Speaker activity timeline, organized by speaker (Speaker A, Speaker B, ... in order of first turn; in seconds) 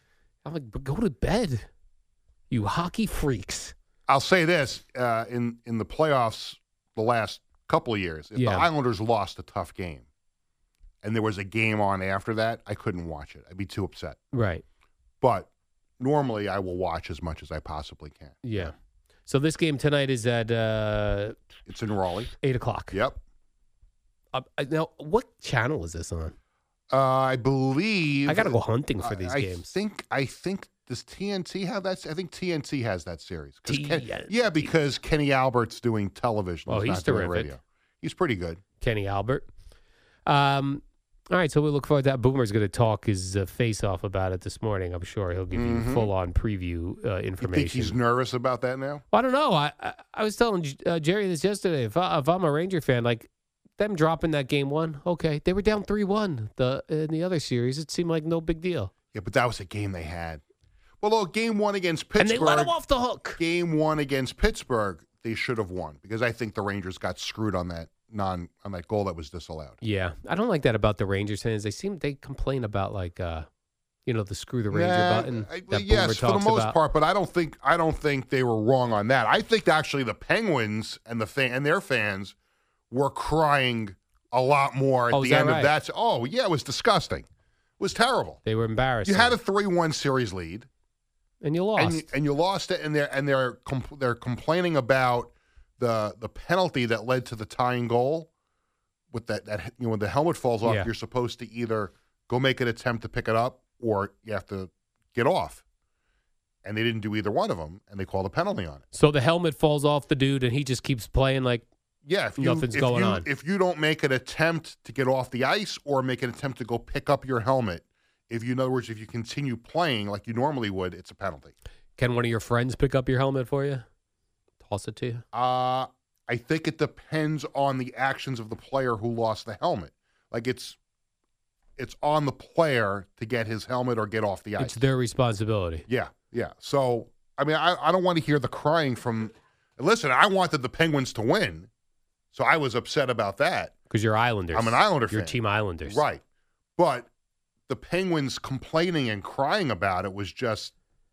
Speaker A: 0.4-1.7, 2.5-3.7, 8.3-8.7, 14.3-14.6, 18.4-18.7, 19.3-21.4, 22.4-23.0, 24.3-26.3, 28.3-29.7, 33.6-34.7, 36.7-37.5, 38.8-39.5, 40.2-48.0, 49.1-58.9, 62.2-63.4, 69.8-73.5, 74.0-76.8, 85.1-85.7, 88.4-89.3, 91.4-92.1, 100.6-100.9, 108.9-111.6, 112.4-113.2, 122.0-123.8, 124.6-125.2, 134.6-135.8, 143.9-146.0
Speaker B: 4.1-10.1, 11.0-14.2, 15.2-18.7, 21.7-22.3, 22.9-23.2, 26.9-38.6, 45.5-46.1, 47.4-49.0, 59.1-60.4, 61.0-62.7, 63.4-69.8, 74.7-82.3, 82.9-87.2, 87.8-88.4, 89.0-90.7, 91.8-98.3, 99.1-105.6, 106.6-108.8, 112.0-121.5, 125.3-130.8, 131.8-134.8, 135.9-141.7, 142.3-143.7, 144.5-146.2, 146.8-147.1, 147.7-150.7